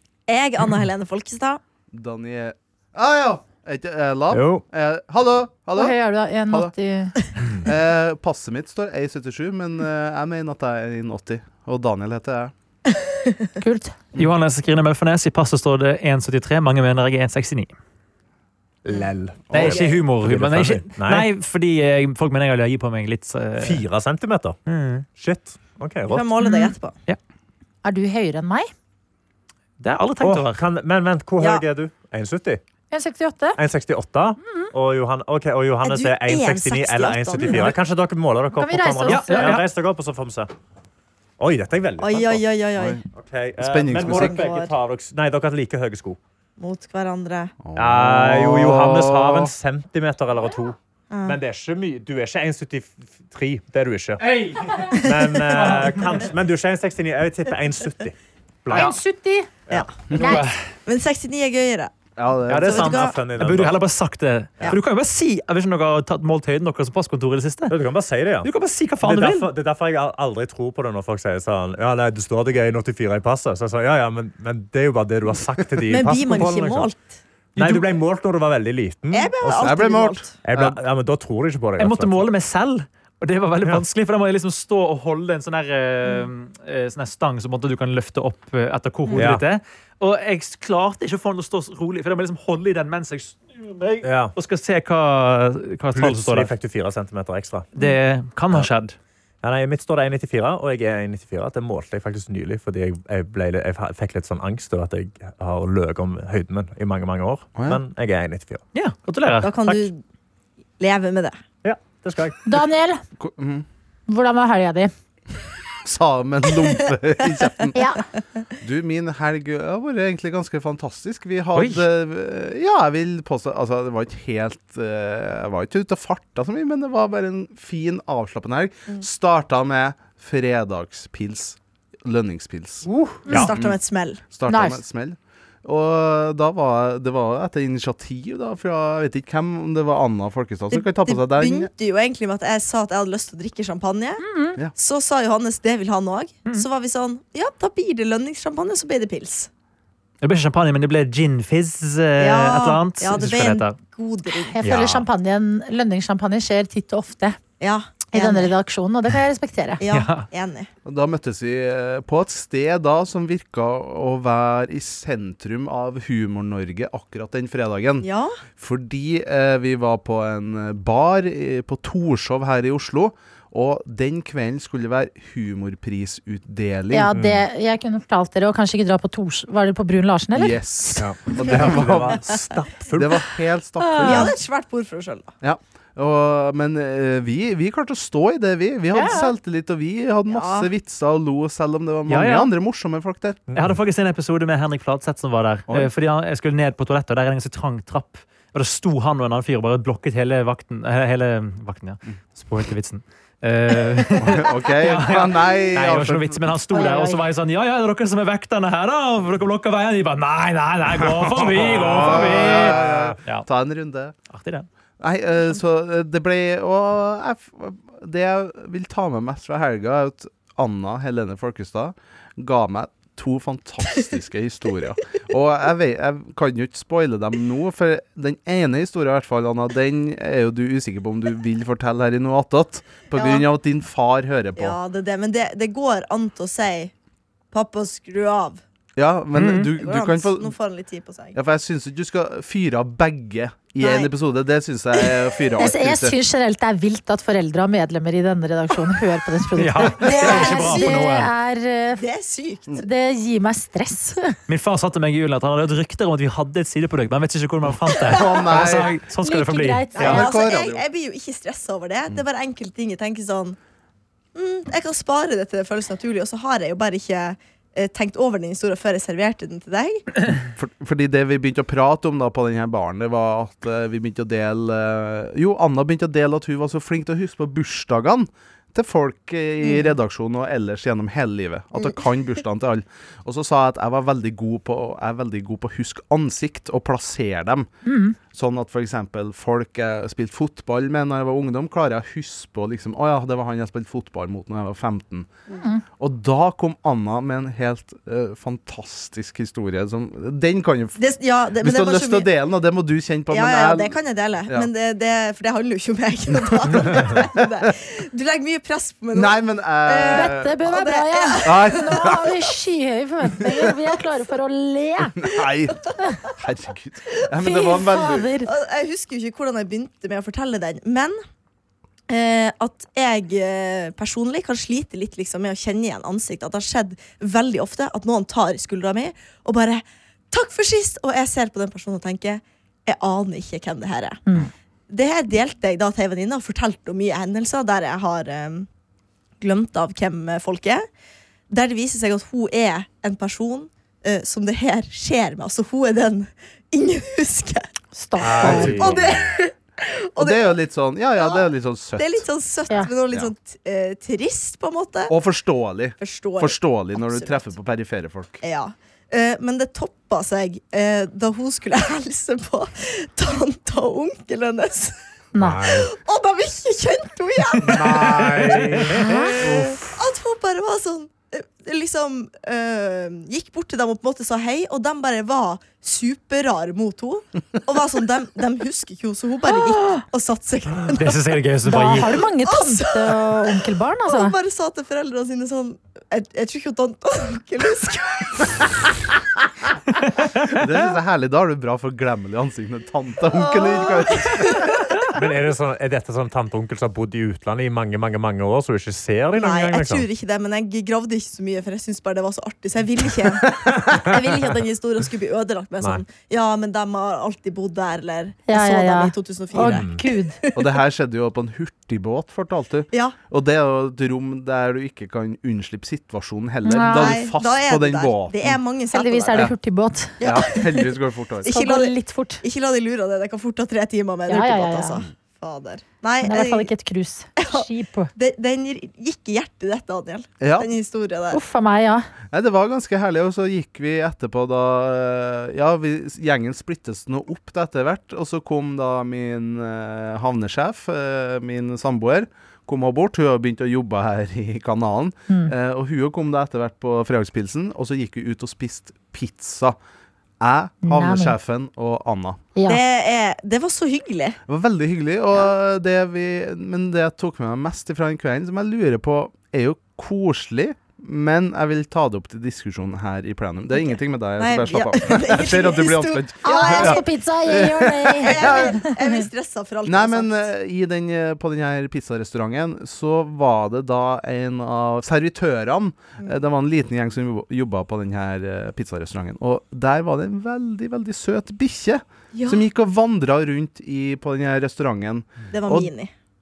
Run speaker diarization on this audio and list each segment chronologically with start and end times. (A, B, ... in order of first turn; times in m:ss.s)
0:00.3-0:01.6 A
0:01.9-0:06.7 B
0:04.3-0:04.6 C
0:05.8-0:07.2 D
0:07.6-0:12.5 B
0:13.6-0:13.9 D
0:14.2-0:17.7 E
0:18.8-0:21.3 C
0:19.5-0:19.8 B
0:19.5-0:23.8 E
0:23.6-0:24.6 C
0:24.7-0:25.0 E
0:25.2-0:26.2 C
0:26.0-0:26.9 A
0:26.4-0:26.7 D
0:27.8-0:28.7 D
0:29.8-0:30.6 E
0:30.2-0:32.6 C
0:31.4-0:31.6 A
0:32.9-0:33.6 D
0:33.6-0:40.5 C
0:34.4-0:34.7 D
0:35.8-0:37.8 A
0:38.5-0:39.6 D
0:39.1-0:39.6 E
0:41.4-0:42.4 C
0:42.0-0:43.0 A
0:42.8-0:43.0 B
0:43.1-0:46.2 C
0:43.6-0:44.4 B
0:43.9-0:44.7 A
0:46.6-0:47.5 A
0:47.6-0:49.5 B
0:47.7-0:54.2 C
0:51.1-0:51.4 A
0:54.2-0:55.0 E
0:54.8-0:58.9 C
0:55.0-0:55.6 A
0:55.5-0:56.3 E
0:58.7-0:59.0 E
0:58.7-0:59.5 D
0:59.7-1:01.9 A
1:00.1-1:00.4 B
1:00.2-1:00.4 D
1:00.2-1:00.6 E
1:02.2-1:02.9 B
1:02.5-1:07.8 E
1:02.5-1:03.8 C
1:02.6-1:03.2 A
1:07.7-1:08.5 C
1:08.4-1:09.5 E
1:09.0-1:16.9 C
1:15.9-1:17.0 A
1:17.6-1:17.9 E
1:17.6-1:19.8 C
1:19.1-1:20.4 A
1:19.6-1:20.8 B
1:20.4-1:22.3 C
1:21.8-1:36.5 E
1:29.2-1:29.4 C
1:34.0-1:34.3 C
1:35.9-1:37.7 C
1:37.7-1:38.9 E
1:39.4-1:48.6 C
1:48.7-1:49.9 E
1:49.4-1:50.0 A
1:50.8-1:51.4 A
1:51.6-1:52.4 C
1:52.5-1:53.0 D
1:53.2-1:53.6 B
1:54.1-1:54.9 D
1:55.8-1:57.8 B
1:57.7-1:58.0 D
1:58.6-2:12.9 B
2:01.5-2:01.8 E
2:12.8-2:13.5 C
2:13.3-2:14.2 A
2:13.5-2:13.8 B
2:14.3-2:21.7 B
2:14.5-2:14.8 D
2:20.7-2:24.2 A
2:24.2-2:24.6 D
2:24.7-2:29.5 A
2:30.2-2:33.8 E
2:32.2-2:34.6 A
2:34.4-2:37.4 D
2:34.6-2:35.0 E
2:37.6-2:38.5 A
2:38.1-2:39.8 D
2:39.8-2:40.7 A
2:39.9-2:40.2 E
2:40.8-2:48.1 B
2:48.0-2:48.3 A
2:48.6-2:57.1 B
2:56.9-3:01.0 D
2:57.1-2:57.4 C
3:00.3-3:02.4 B
3:01.0-3:03.2 C
3:02.9-3:04.3 B
3:03.8-3:04.3 D
3:03.9-3:05.3 A
3:05.4-3:13.4 B
3:08.9-3:09.3 D
3:10.3-3:10.7 A
3:12.1-3:12.5 E
3:13.5-3:33.4 E
3:24.2-3:26.4 B
3:26.7-3:27.2 D
3:31.4-3:34.1 B
3:31.5-3:33.2 C
3:34.3-3:34.7 E
3:35.0-3:54.8 B
3:53.1-3:53.4 A
3:54.6-3:56.9 A
3:57.5-3:58.6 A
3:58.9-4:00.5 B
3:59.3-3:59.7 E
3:59.7-4:01.4 A
4:01.3-4:06.1 B
4:03.8-4:04.1 A
4:05.0-4:05.2 A
4:05.6-4:12.0 D
4:09.6-4:11.3 E
4:10.0-4:11.1 A
4:12.0-4:12.8 A
4:12.8-4:14.3 D
4:14.5-4:20.2 E
4:18.0-4:19.0 B
4:19.2-4:20.3 D
4:19.9-4:23.6 A
4:20.0-4:20.8 B
4:24.3-4:30.1 A
4:30.6-4:47.7 B
4:39.6-4:39.9 A
4:41.8-4:42.0 A
4:47.8-4:48.2 D
4:48.3-4:55.3 B
4:56.0-5:01.0 B
5:01.0-5:02.3 A
5:01.6-5:04.7 B
5:03.3-5:12.4 A
5:06.5-5:07.7 B
5:09.1-5:10.6 B
5:10.1-5:15.3 D
5:11.4-5:12.3 B
5:15.2-5:18.3 B
5:17.4-5:18.5 D
5:17.5-5:21.2 A
5:22.1-5:34.2 A
5:34.9-5:38.7 A
5:39.4-5:40.8 A
5:41.5-5:47.7 A
5:47.9-5:48.8 D
5:48.2-5:49.2 C
5:48.4-5:49.1 B
5:48.4-5:50.6 A
5:50.2-5:52.2 B
5:52.0-5:55.1 A
5:55.1-5:58.4 B
5:56.0-5:57.5 A
5:58.4-6:04.9 A
6:05.3-6:05.7 D
6:05.4-6:05.8 C
6:05.6-6:08.4 A
6:07.6-6:09.8 B
6:08.4-6:08.9 C
6:09.0-6:09.4 D
6:09.4-6:21.2 A
6:19.5-6:20.0 D
6:20.9-6:22.3 E
6:21.6-6:24.4 D
6:22.4-6:28.9 A
6:30.5-6:34.8 B
6:33.3-6:34.9 A
6:35.1-6:40.1 C
6:39.3-6:50.8 A
6:48.5-6:50.4 D
6:49.6-6:50.0 C
6:50.5-6:58.6 B
6:52.9-6:53.2 A
6:56.6-6:57.2 D
6:56.8-6:59.5 A
6:58.9-7:00.2 D
7:00.2-7:01.5 B
7:00.2-7:06.7 A
7:01.4-7:02.4 D
7:04.3-7:05.0 D
7:06.2-7:08.1 D
7:07.4-7:11.4 A
7:10.4-7:10.7 B
7:11.3-7:12.1 D
7:12.3-7:29.8 B
7:30.4-7:32.4 B
7:30.8-7:31.4 D
7:32.6-7:34.4 A
7:34.5-7:48.8 B
7:43.8-7:47.1 A
7:46.4-7:49.2 D
7:48.2-7:50.4 A
7:49.8-8:05.9 B
8:02.3-8:02.6 A
8:05.5-8:06.1 A